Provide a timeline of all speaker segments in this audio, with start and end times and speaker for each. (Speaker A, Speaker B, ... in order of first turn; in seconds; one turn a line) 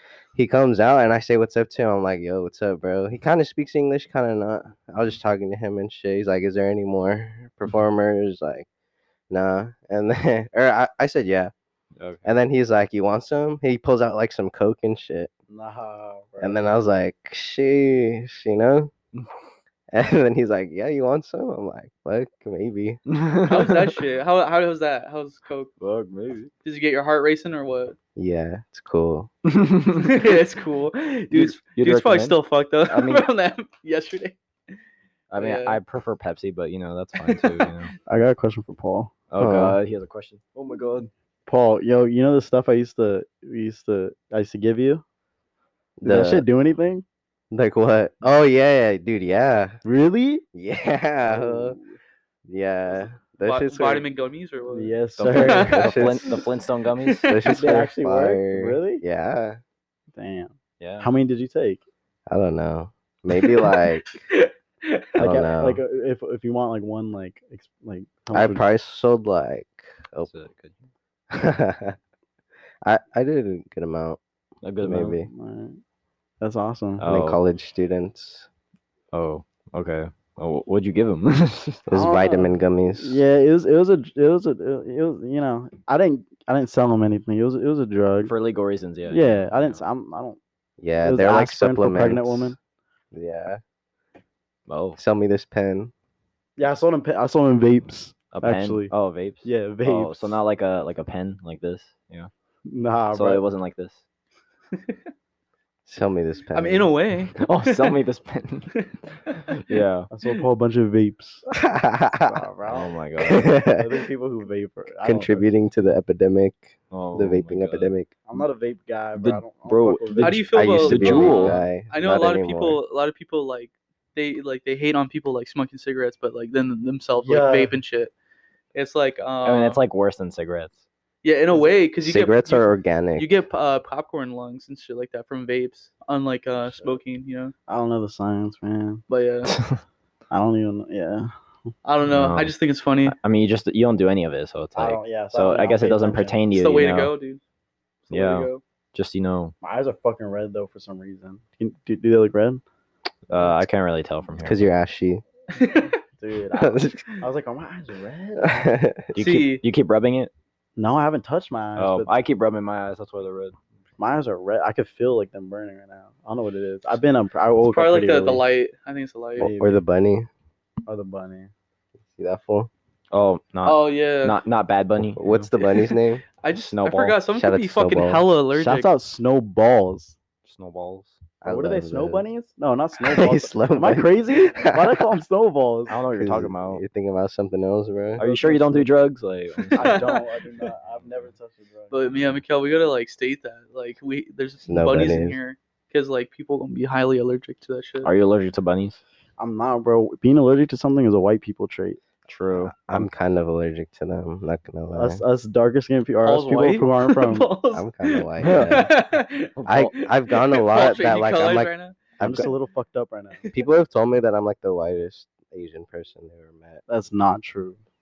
Speaker A: 0.3-8.7
Speaker A: 9.3-11.5
Speaker B: 12.0-12.3
Speaker A: 12.2-15.3
Speaker C: 15.5-16.6
Speaker A: 16.4-18.9
Speaker A: 19.9-23.0
Speaker B: 23.1-23.9
Speaker D: 23.4-25.7
Speaker B: 25.8-26.5
Speaker D: 26.6-27.9
Speaker A: 28.1-29.3
Speaker B: 29.5-30.3
Speaker D: 29.9-34.4
Speaker B: 31.3-33.3
Speaker B: 35.3-37.9
Speaker D: 35.4-35.8
Speaker D: 37.3-37.7
Speaker C: 38.1-39.1
Speaker B: 39.3-41.1
Speaker A: 39.4-39.8
Speaker C: 41.5-45.0
Speaker A: 46.0-46.4
Speaker C: 46.0-47.0
Speaker A: 47.5-49.8
Speaker C: 49.8-50.4
Speaker A: 50.5-51.8
Speaker C: 51.3-52.0
Speaker A: 52.5-54.0
Speaker D: 53.4-56.4
Speaker C: 54.7-55.8
Speaker B: 55.2-57.3
Speaker A: 55.7-56.3
Speaker D: 57.0-57.6
Speaker A: 57.3-59.6
Speaker C: 57.5-59.0
Speaker C: 60.1-61.8
Speaker B: 60.8-61.1
Speaker A: 62.3-64.3
Speaker D: 63.3-65.2
Speaker C: 65.2-68.6
Speaker A: 65.2-65.8
Speaker A: 68.3-70.3
Speaker B: 70.3-70.8
Speaker A: 71.3-72.0
Speaker A: 72.8-74.2
Speaker B: 74.6-75.2
Speaker A: 74.8-75.3
Speaker C: 75.2-75.8
Speaker C: 76.4-77.0
Speaker B: 77.0-77.4
Speaker A: 77.0-78.5
Speaker B: 79.1-81.8
Speaker A: 81.9-83.2
Speaker C: 81.9-88.3
Speaker B: 88.3-89.8
Speaker C: 89.1-90.4
Speaker A: 90.8-92.5
Speaker C: 91.0-92.6
Speaker A: 93.1-93.6
Speaker B: 94.7-95.0
Speaker A: 95.0-95.9
Speaker C: 96.6-98.9
Speaker B: 98.3-102.3
Speaker C: 99.4-100.4
Speaker C: 102.7-103.4
Speaker B: 103.1-104.0
Speaker A: 105.9-106.9
Speaker D: 106.5-108.0
Speaker B: 107.4-108.8
Speaker D: 108.8-109.8
Speaker B: 109.6-110.1
Speaker C: 110.1-111.4
Speaker A: 111.5-112.4
Speaker C: 112.3-113.0
Speaker B: 112.7-113.5
Speaker A: 113.2-114.0
Speaker C: 113.6-115.5
Speaker A: 115.0-118.1
Speaker B: 116.9-117.9
Speaker C: 118.3-120.5
Speaker B: 119.2-121.6
Speaker D: 120.2-128.1
Speaker A: 120.5-122.8
Speaker C: 127.2-127.8
Speaker D: 128.7-129.8
Speaker B: 129.4-130.8
Speaker D: 131.2-137.5
Speaker A: 132.0-133.3
Speaker C: 137.7-139.0
Speaker D: 139.1-139.6
Speaker B: 139.4-139.8
Speaker C: 140.3-141.3
Speaker D: 141.8-143.1
Speaker B: 142.1-142.5
Speaker B: 143.1-147.1
Speaker C: 144.8-146.4
Speaker D: 146.5-147.4
Speaker D: 148.1-148.6
Speaker B: 148.1-149.5
Speaker C: 149.6-152.6
Speaker B: 153.3-154.7
Speaker A: 154.4-155.2
Speaker D: 155.5-156.0
Speaker C: 156.2-158.6
Speaker A: 156.6-157.1
Speaker A: 158.4-159.1
Speaker B: 159.1-160.3
Speaker D: 159.2-159.6
Speaker C: 160.8-162.1
Speaker B: 161.8-163.6
Speaker C: 164.0-168.4
Speaker D: 167.6-169.5
Speaker A: 169.4-170.3
Speaker C: 169.4-169.8
Speaker C: 170.9-171.5
Speaker A: 172.1-172.7
Speaker B: 173.1-175.5
Speaker D: 173.6-174.4
Speaker A: 175.2-176.2
Speaker D: 176.4-178.9
Speaker B: 176.6-177.2
Speaker A: 177.3-178.3
Speaker C: 178.5-180.2
Speaker B: 180.4-181.1
Speaker A: 181.4-182.2
Speaker C: 181.4-186.0
Speaker A: 183.1-185.1
Speaker B: 185.9-186.8
Speaker A: 186.1-188.2
Speaker C: 188.2-188.9
Speaker B: 188.2-190.1
Speaker D: 189.7-190.7
Speaker C: 189.7-192.1
Speaker D: 191.9-198.1
Speaker A: 194.7-195.4
Speaker B: 198.0-199.0
Speaker C: 199.4-202.0
Speaker B: 202.3-203.1
Speaker A: 202.5-205.2
Speaker C: 204.9-207.5
Speaker D: 206.2-212.0
Speaker A: 207.7-208.9
Speaker B: 208.4-208.9
Speaker B: 209.6-209.9
Speaker A: 209.7-212.5
Speaker C: 212.2-213.4
Speaker A: 213.5-216.8
Speaker C: 216.9-217.8